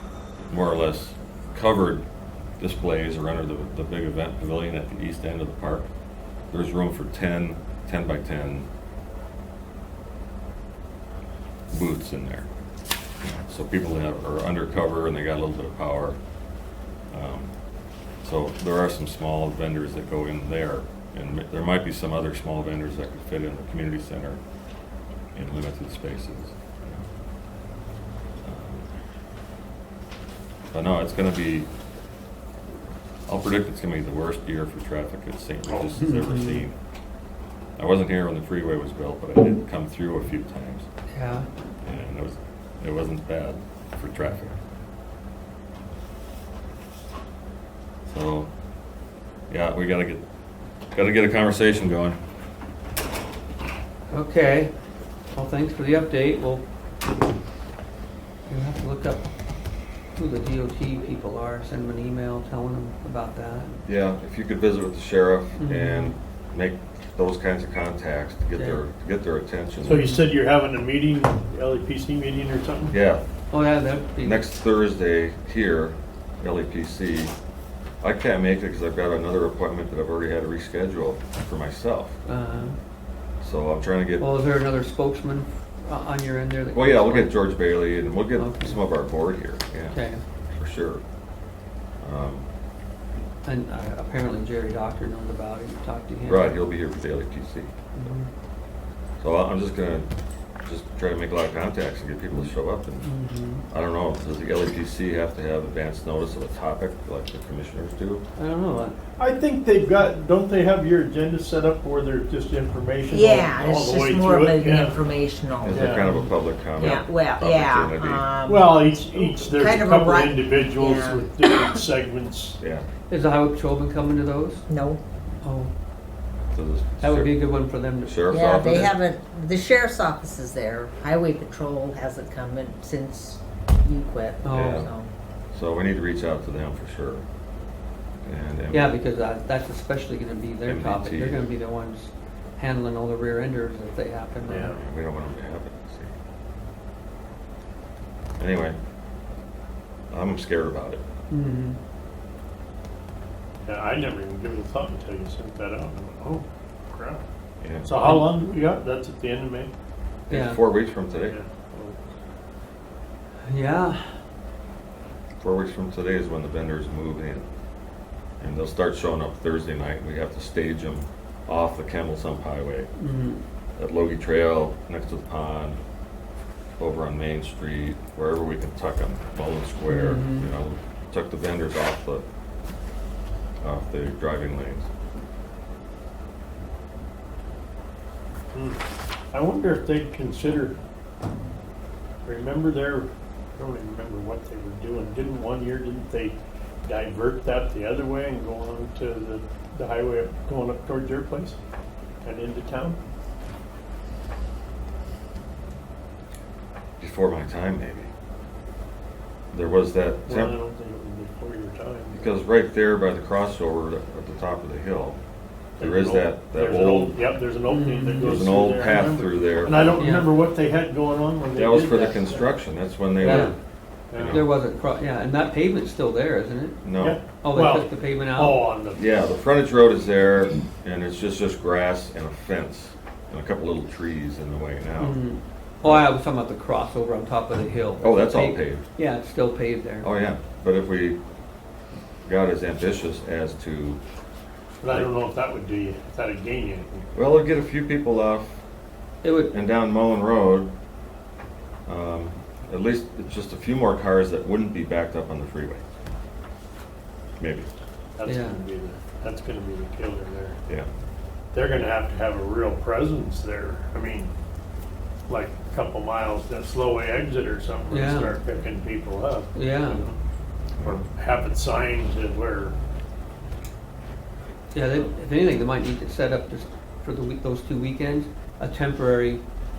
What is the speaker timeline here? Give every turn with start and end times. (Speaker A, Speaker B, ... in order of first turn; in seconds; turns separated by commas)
Speaker A: 0.5-2.0, Speaker A: 2.6-5.9, Speaker A: 6.5-8.7, Speaker A: 11.7-12.5, Speaker A: 13.2-16.2, Speaker A: 17.1-17.5, Speaker A: 18.2-24.4, Speaker A: 25.4-27.1, Speaker A: 28.4-28.9, Speaker A: 30.7-31.7, Speaker A: 33.3-36.8, Speaker B: 36.0-36.7, Speaker A: 37.8-40.9, Speaker B: 41.1-41.5, Speaker A: 41.8-44.6, Speaker A: 48.1-48.5, Speaker A: 49.5-50.2, Speaker A: 50.9-52.2, Speaker B: 54.1-54.7, Speaker B: 55.4-56.6, Speaker B: 58.5-59.2, Speaker B: 60.2-63.8, Speaker A: 63.9-70.1, Speaker B: 65.6-66.1, Speaker C: 69.8-72.9, Speaker B: 70.0-70.2, Speaker A: 72.9-73.2, Speaker B: 73.5-74.4, Speaker A: 74.2-77.3, Speaker A: 78.0-82.2, Speaker B: 82.3-82.8, Speaker A: 83.4-84.3, Speaker B: 84.2-87.4, Speaker A: 86.7-90.0, Speaker B: 88.3-88.8, Speaker B: 89.9-90.2, Speaker A: 90.5-91.0, Speaker A: 92.0-92.5, Speaker B: 93.5-96.6, Speaker A: 96.2-98.1, Speaker B: 98.0-98.3, Speaker A: 99.2-100.1, Speaker A: 100.6-103.1, Speaker B: 103.0-103.7, Speaker A: 103.7-108.2, Speaker B: 108.4-109.0, Speaker C: 109.2-115.0, Speaker D: 113.1-115.9, Speaker A: 115.6-118.3, Speaker C: 115.7-116.1, Speaker B: 116.0-116.3, Speaker D: 116.8-121.8, Speaker C: 118.5-122.6, Speaker A: 122.6-122.9, Speaker B: 123.1-124.6, Speaker D: 124.7-125.0, Speaker B: 125.4-125.7, Speaker A: 126.5-127.4, Speaker B: 127.0-128.9, Speaker A: 128.0-128.9, Speaker D: 128.3-135.1, Speaker B: 134.4-134.8, Speaker A: 134.5-134.9, Speaker A: 135.5-137.2, Speaker A: 138.2-139.0, Speaker B: 138.7-144.7, Speaker A: 140.7-141.4, Speaker C: 144.5-144.8, Speaker A: 144.5-146.1, Speaker A: 148.4-148.8, Speaker A: 150.1-151.0, Speaker B: 151.3-151.8, Speaker C: 153.7-157.2, Speaker A: 157.6-157.9, Speaker C: 157.8-159.7, Speaker B: 158.0-158.3, Speaker A: 160.3-161.4, Speaker B: 160.3-160.6, Speaker C: 161.3-162.0, Speaker B: 163.5-164.1, Speaker A: 165.4-167.5, Speaker A: 168.4-172.9, Speaker B: 173.0-173.4, Speaker A: 173.8-175.8, Speaker A: 176.8-182.2, Speaker B: 179.9-180.5, Speaker A: 183.6-184.9, Speaker C: 188.5-190.8, Speaker C: 192.2-201.6, Speaker C: 202.2-203.0, Speaker A: 207.0-208.1, Speaker A: 209.5-210.6, Speaker C: 210.3-212.3, Speaker A: 212.1-215.2, Speaker C: 215.8-222.5, Speaker A: 215.8-217.2, Speaker B: 217.7-218.5, Speaker A: 218.2-220.0, Speaker B: 220.0-220.3, Speaker A: 221.6-223.6, Speaker C: 223.2-223.5, Speaker B: 223.2-223.6, Speaker C: 224.1-224.4, Speaker A: 224.1-224.5, Speaker B: 224.3-226.8, Speaker A: 226.8-227.2, Speaker C: 227.0-229.0, Speaker B: 227.4-228.6, Speaker A: 228.9-235.2, Speaker B: 235.0-240.1, Speaker A: 238.0-238.8, Speaker A: 240.0-241.2, Speaker A: 242.2-244.0, Speaker C: 244.8-247.1, Speaker A: 244.9-245.1, Speaker A: 247.1-248.6, Speaker B: 249.2-249.6, Speaker A: 249.5-250.7, Speaker A: 251.9-255.8, Speaker A: 257.4-257.7, Speaker C: 258.2-260.6, Speaker B: 258.2-258.6, Speaker C: 261.5-264.3, Speaker C: 265.3-270.2, Speaker B: 267.9-268.4, Speaker B: 269.5-270.0, Speaker A: 270.8-271.0, Speaker C: 270.8-272.8, Speaker B: 274.7-279.4